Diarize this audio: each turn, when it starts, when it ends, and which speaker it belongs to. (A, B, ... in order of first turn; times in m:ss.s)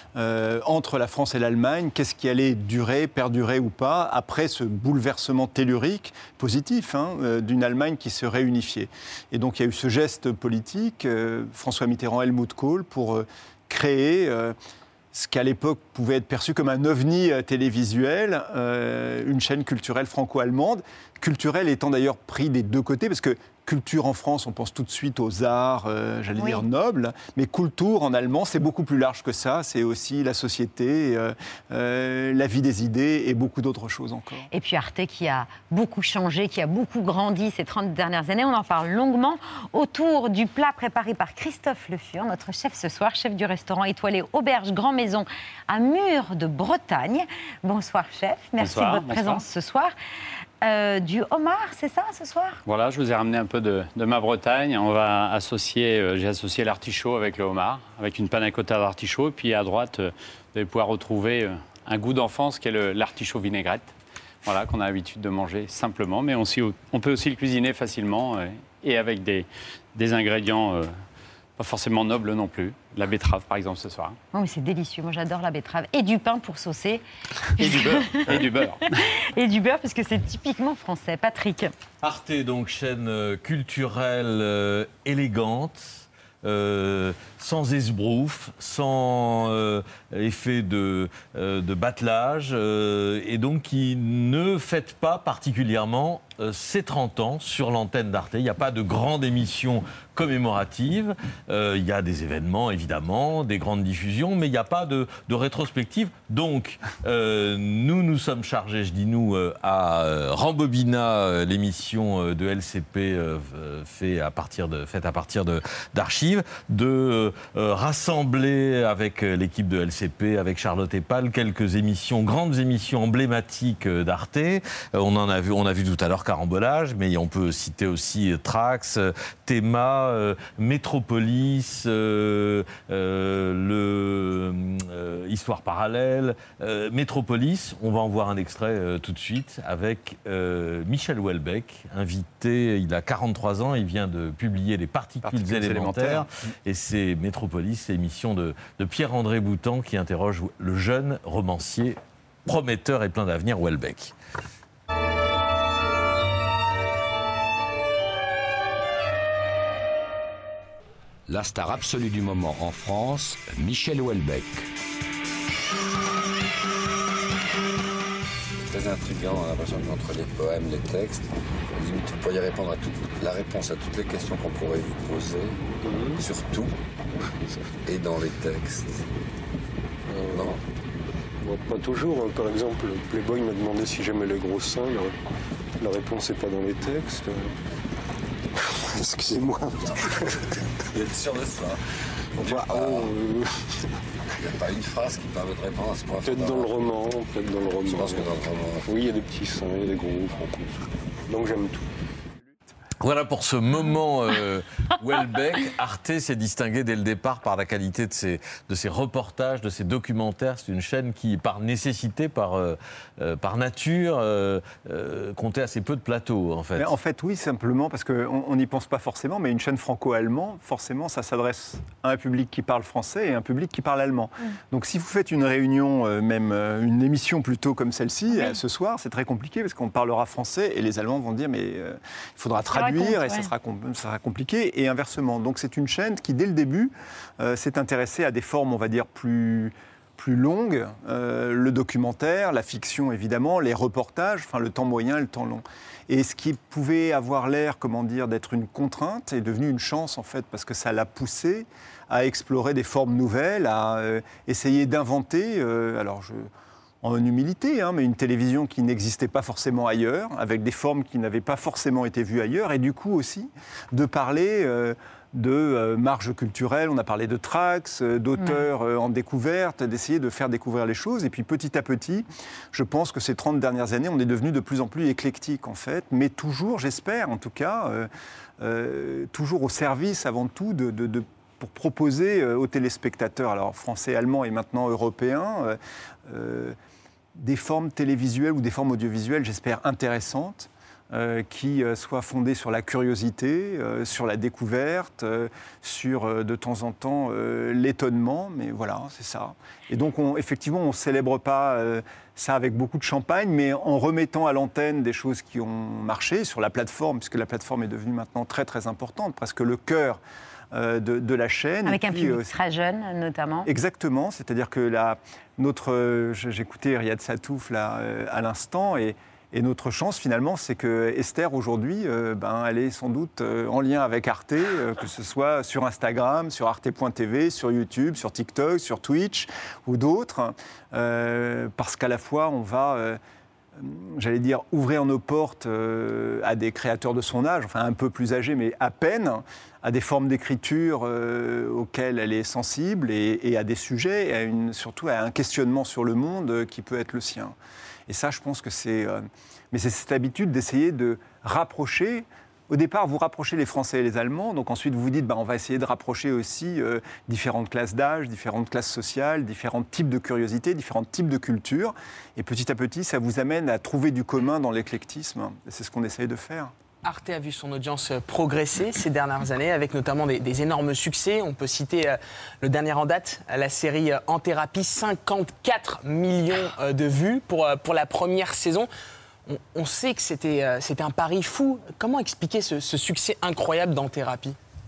0:00.2-0:14.5 A
0:15.1-0:34.5 A
0:26.4-0:26.6 B
0:34.5-0:49.9 B
0:48.6-0:49.4 C
0:50.6-0:52.6 B
0:52.6-1:10.9 C
1:11.6-1:14.2 C
1:14.3-1:17.0 B
1:17.6-1:18.5 B
1:17.6-1:18.8 C
1:19.4-1:21.7 B
1:22.0-2:34.1 D
2:41.3-2:44.5 E
2:48.7-2:55.6 F
2:55.8-2:56.2 G
2:56.2-2:56.7 F
2:57.8-2:59.0 F
3:00.1-3:00.6 G
3:00.2-3:00.6 F
3:01.4-3:05.1 G
3:05.8-3:07.5 G
3:08.8-3:10.4 G
3:10.9-3:11.8 F
3:12.4-3:13.1 F
3:12.4-3:13.5 G
3:14.4-3:16.7 F
3:16.2-3:21.9 G
3:17.8-3:18.9 F
3:23.0-3:36.9 D
3:36.8-4:16.5 A
3:48.3-3:48.6 B
3:52.7-3:53.5 B
4:17.0-4:38.1 A
4:38.6-4:46.8 A
4:47.4-5:10.2 A
5:10.7-5:12.5 A
5:11.8-5:13.7 B
5:13.6-5:33.2 A
5:33.8-5:47.5 A
5:48.1-6:06.7 A
6:07.0-6:18.9 H
6:19.5-6:24.6 H